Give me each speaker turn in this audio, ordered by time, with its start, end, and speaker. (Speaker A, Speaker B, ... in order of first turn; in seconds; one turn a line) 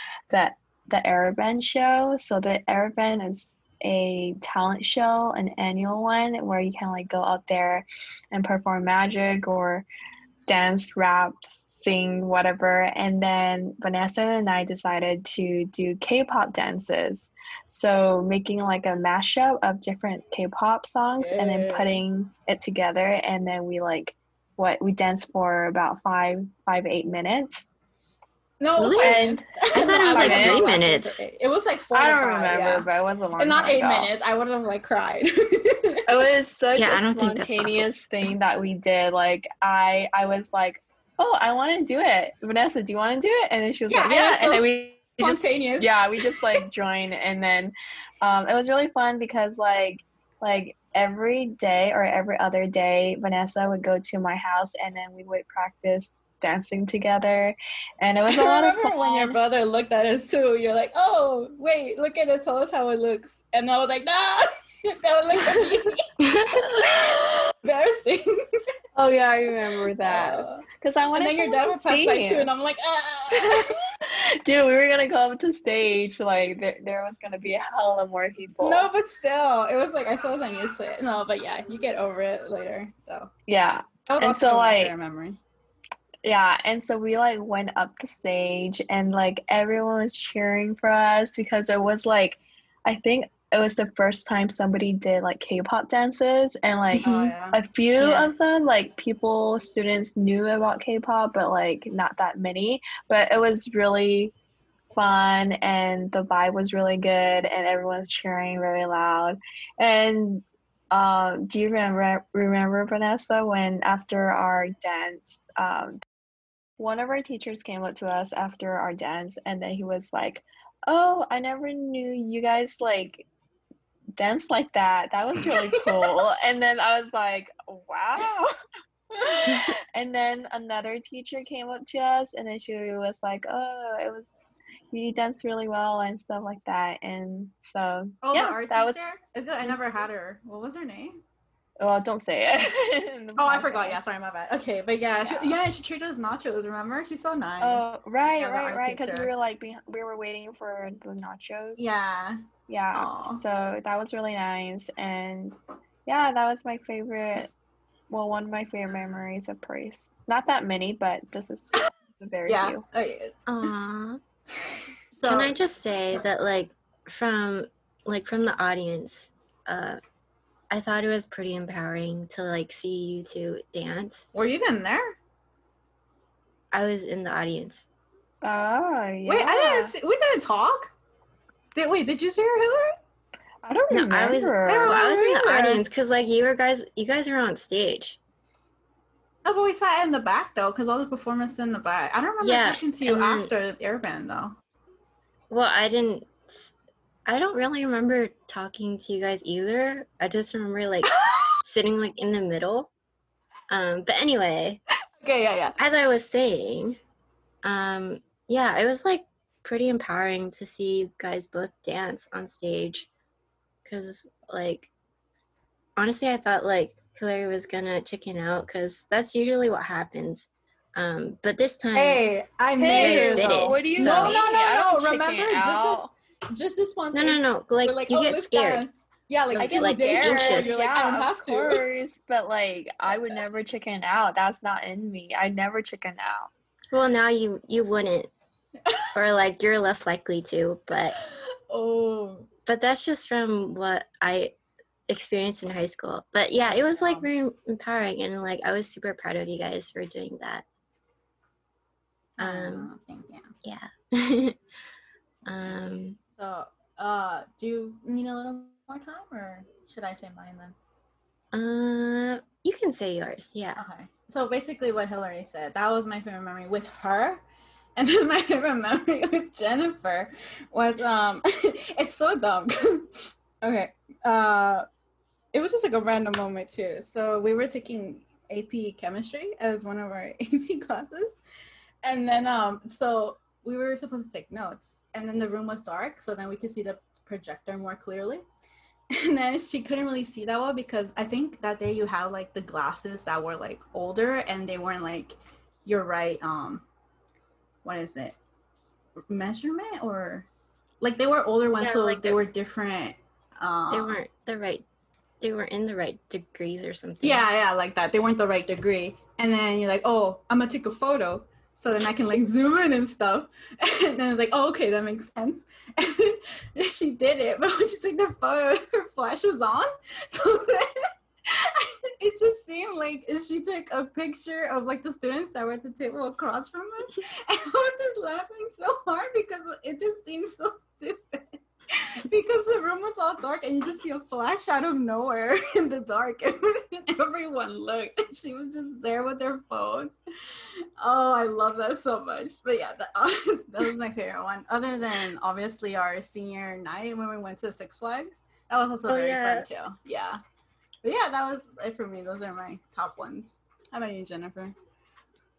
Speaker A: 0.3-9.9
Speaker A: 10.5-27.7
Speaker B: 21.2-22.0
Speaker B: 28.6-32.9
Speaker C: 28.8-31.2
Speaker A: 29.0-30.6
Speaker A: 31.9-34.1
Speaker B: 33.4-36.0
Speaker A: 36.1-59.4
Speaker C: 36.8-37.9
Speaker B: 43.9-46.6
Speaker B: 58.3-66.0
Speaker C: 66.2-66.6
Speaker A: 66.7-67.5
Speaker B: 66.8-68.3
Speaker A: 69.0-72.5
Speaker B: 70.0-73.8
Speaker A: 73.3-78.9
Speaker B: 78.6-83.3
Speaker A: 83.5-84.9
Speaker B: 84.0-85.4
Speaker A: 86.2-104.3
Speaker B: 97.0-97.6
Speaker C: 97.0-97.3
Speaker C: 98.0-98.3
Speaker A: 105.0-116.0
Speaker A: 116.8-123.2
Speaker A: 124.2-128.3
Speaker B: 125.5-126.2
Speaker B: 128.2-128.5
Speaker A: 129.1-139.1
Speaker B: 138.2-141.2
Speaker A: 141.8-144.0
Speaker B: 143.4-149.3
Speaker A: 145.2-145.6
Speaker A: 147.6-151.9
Speaker B: 151.8-152.4
Speaker A: 152.7-157.5
Speaker B: 152.9-153.4
Speaker A: 158.1-162.8
Speaker B: 162.5-163.7
Speaker C: 163.5-164.2
Speaker B: 164.7-165.5
Speaker C: 165.2-170.0
Speaker C: 170.7-174.2
Speaker B: 174.3-175.2
Speaker C: 176.7-177.9
Speaker A: 178.4-179.9
Speaker B: 179.3-180.9
Speaker B: 181.8-182.9
Speaker A: 183.6-185.8
Speaker C: 183.9-188.2
Speaker B: 184.7-185.7
Speaker B: 189.4-194.5
Speaker C: 192.4-193.5
Speaker C: 195.5-196.7
Speaker C: 197.2-202.9
Speaker B: 201.1-201.5
Speaker C: 203.7-204.8
Speaker B: 205.2-205.8
Speaker C: 205.8-207.0
Speaker C: 207.6-213.1
Speaker C: 213.8-214.9
Speaker C: 216.0-222.2
Speaker B: 221.9-231.8
Speaker A: 222.8-226.1
Speaker C: 222.9-224.4
Speaker C: 227.1-228.9
Speaker C: 229.5-230.8
Speaker A: 229.6-236.5
Speaker C: 236.9-238.3
Speaker C: 239.1-241.2
Speaker B: 241.7-242.5
Speaker C: 242.7-244.6
Speaker C: 245.1-250.6
Speaker B: 246.6-247.3
Speaker B: 252.4-253.5
Speaker C: 252.4-252.9
Speaker C: 253.6-254.6
Speaker C: 255.4-256.2
Speaker B: 256.4-260.8
Speaker C: 261.5-263.8
Speaker B: 263.8-267.4
Speaker B: 268.0-274.9
Speaker B: 275.5-281.4
Speaker B: 282.0-288.4
Speaker B: 289.1-296.9
Speaker B: 297.8-298.4
Speaker B: 299.3-300.5
Speaker B: 301.0-304.2
Speaker C: 301.8-302.4
Speaker C: 303.9-304.9
Speaker C: 305.4-307.4
Speaker B: 307.2-340.1
Speaker B: 341.0-350.4
Speaker C: 349.1-349.6
Speaker B: 351.0-354.8